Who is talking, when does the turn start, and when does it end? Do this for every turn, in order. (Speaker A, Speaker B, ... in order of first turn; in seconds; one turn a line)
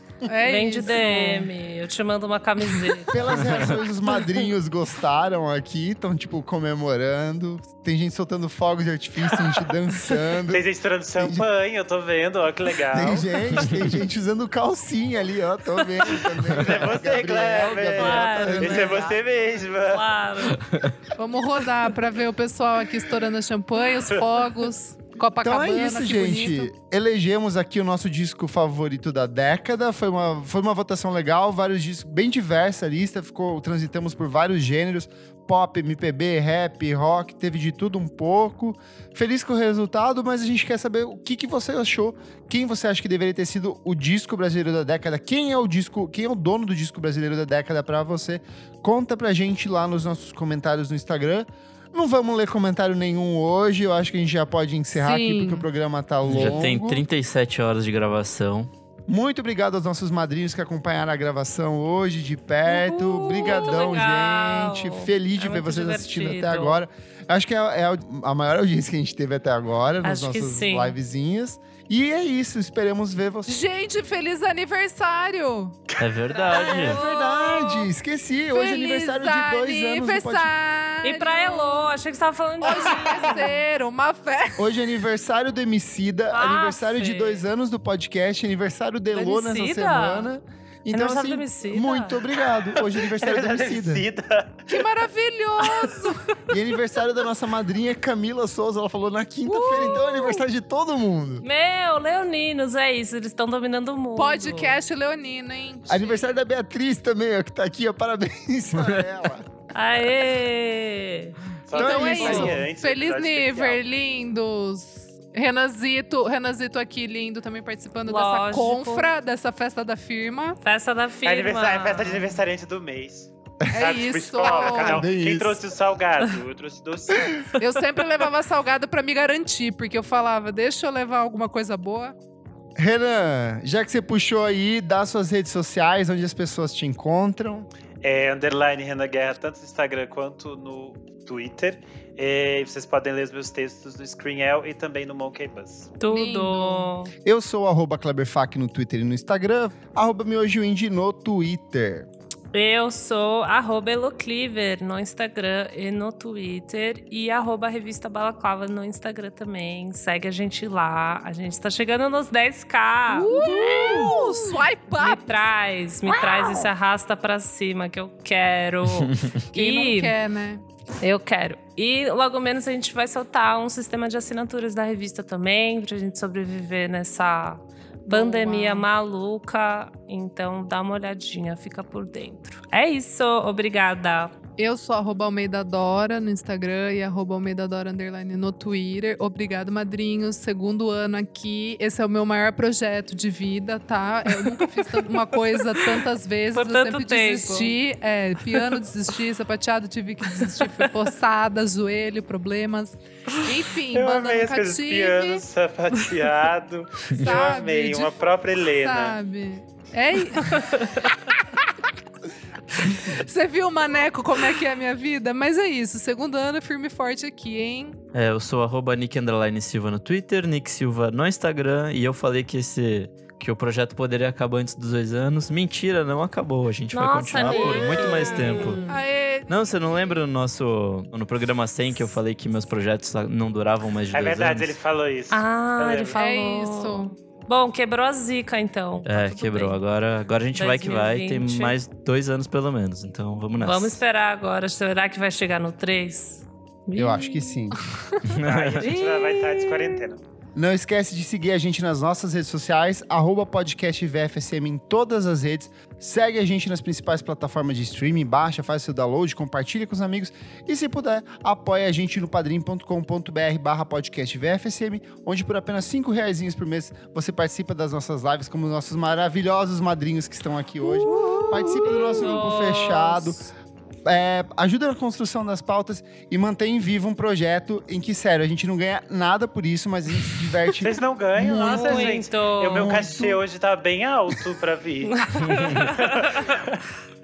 Speaker A: 0.2-1.5
Speaker B: 0.4-3.6
Speaker C: 3.1-10.7
Speaker D: 10.5-13.7
Speaker C: 11.2-11.4
Speaker C: 12.9-19.1
Speaker D: 16.4-20.1
Speaker B: 17.9-20.7
Speaker E: 20.5-21.0
Speaker A: 21.2-26.7
Speaker D: 24.1-24.4
Speaker C: 25.4-57.0
Speaker A: 54.9-55.7
Speaker E: 56.2-58.7
Speaker C: 59.1-73.6
Speaker B: 62.6-66.8
Speaker B: 70.0-71.0
Speaker A: 73.5-75.8
Speaker D: 75.9-76.8
Speaker E: 76.0-77.0
Speaker B: 76.6-77.3
Speaker C: 76.7-80.5
Speaker A: 78.5-81.9
Speaker B: 81.0-83.6
Speaker A: 82.6-84.7
Speaker C: 84.6-94.1
Speaker B: 86.3-87.5
Speaker B: 89.1-90.3
Speaker B: 90.9-92.2
Speaker D: 92.9-94.8
Speaker A: 94.7-96.2
Speaker B: 95.8-96.2
Speaker C: 96.5-101.5
Speaker A: 99.5-100.4
Speaker B: 101.4-104.8
Speaker A: 104.2-106.3
Speaker C: 105.9-109.5
Speaker B: 109.7-111.4
Speaker D: 111.7-113.8
Speaker C: 111.7-112.6
Speaker A: 111.7-120.6
Speaker B: 112.2-112.5
Speaker B: 118.0-119.1
Speaker B: 120.6-122.4
Speaker D: 121.2-127.4
Speaker A: 123.7-125.1
Speaker C: 124.8-125.6
Speaker A: 127.6-132.2
Speaker C: 132.8-137.7
Speaker D: 138.0-146.0
Speaker B: 146.0-147.1
Speaker A: 146.1-146.9
Speaker C: 147.2-152.1
Speaker B: 152.5-164.3
Speaker A: 163.1-165.5
Speaker B: 165.0-170.2
Speaker E: 168.9-169.3
Speaker A: 169.5-170.6
Speaker B: 171.0-184.3
Speaker A: 178.1-178.9
Speaker A: 184.6-205.4
Speaker B: 196.5-197.7
Speaker B: 200.4-200.8
Speaker D: 203.9-209.2
Speaker A: 207.2-208.2
Speaker A: 208.8-210.8
Speaker B: 210.4-211.1
Speaker A: 212.8-218.0
Speaker E: 218.1-228.8
Speaker B: 226.9-229.0
Speaker A: 227.4-229.7
Speaker E: 229.5-234.8
Speaker D: 234.1-236.2
Speaker B: 235.3-239.8
Speaker A: 236.2-237.1
Speaker E: 239.1-244.0
Speaker B: 240.5-241.8
Speaker B: 243.6-247.7
Speaker C: 246.9-247.8
Speaker E: 248.2-248.9
Speaker D: 248.4-250.2
Speaker B: 248.8-250.0
Speaker C: 250.6-273.5
Speaker B: 271.1-273.3
Speaker A: 271.2-271.8
Speaker C: 274.1-282.1
Speaker D: 280.8-286.7
Speaker B: 281.5-282.9
Speaker C: 282.7-283.4
Speaker B: 285.2-286.5
Speaker E: 285.4-285.7